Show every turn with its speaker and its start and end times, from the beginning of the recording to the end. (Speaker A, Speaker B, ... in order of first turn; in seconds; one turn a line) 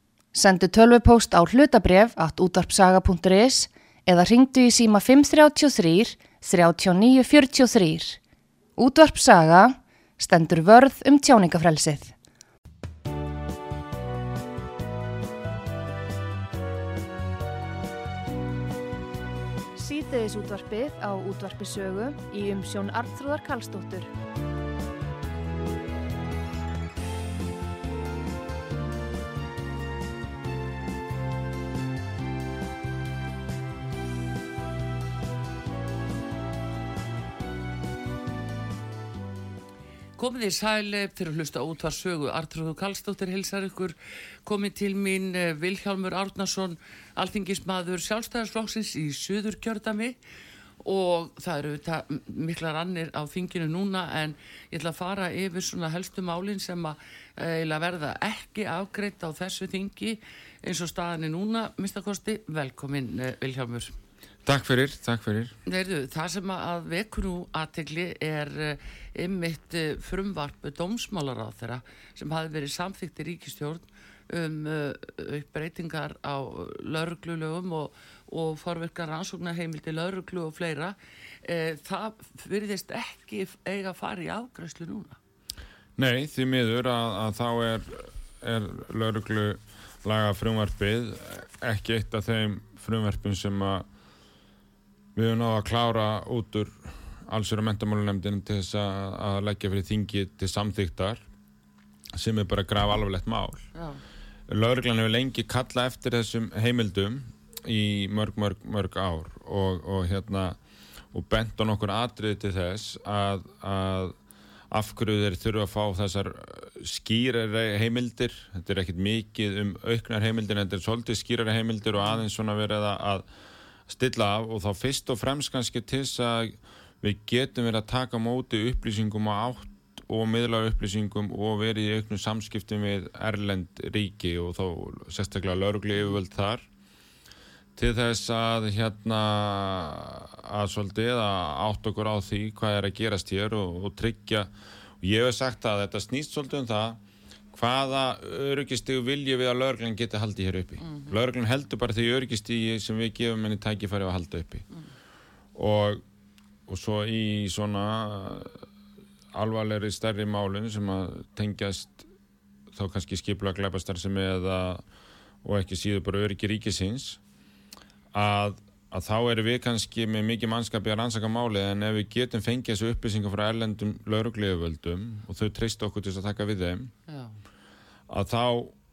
Speaker A: 0.3-8.2
Speaker A: 8.8-12.1
Speaker A: 19.8-24.1
Speaker B: 40.2-50.2
Speaker B: 50.8-63.9
Speaker C: 64.4-65.5
Speaker B: 65.7-85.2
Speaker C: 86.0-93.9
Speaker C: 95.1-101.2
Speaker C: 102.1-103.7
Speaker B: 103.7-104.0
Speaker C: 104.5-110.6
Speaker C: 111.1-114.2
Speaker C: 114.7-123.3
Speaker C: 123.9-136.7
Speaker C: 137.8-147.0
Speaker C: 147.5-154.7
Speaker B: 150.8-151.2
Speaker C: 155.5-156.0
Speaker C: 156.7-158.6
Speaker C: 159.3-162.1
Speaker C: 162.7-164.8
Speaker C: 165.4-167.2
Speaker C: 168.1-176.9
Speaker B: 177.1-177.4
Speaker C: 178.1-178.7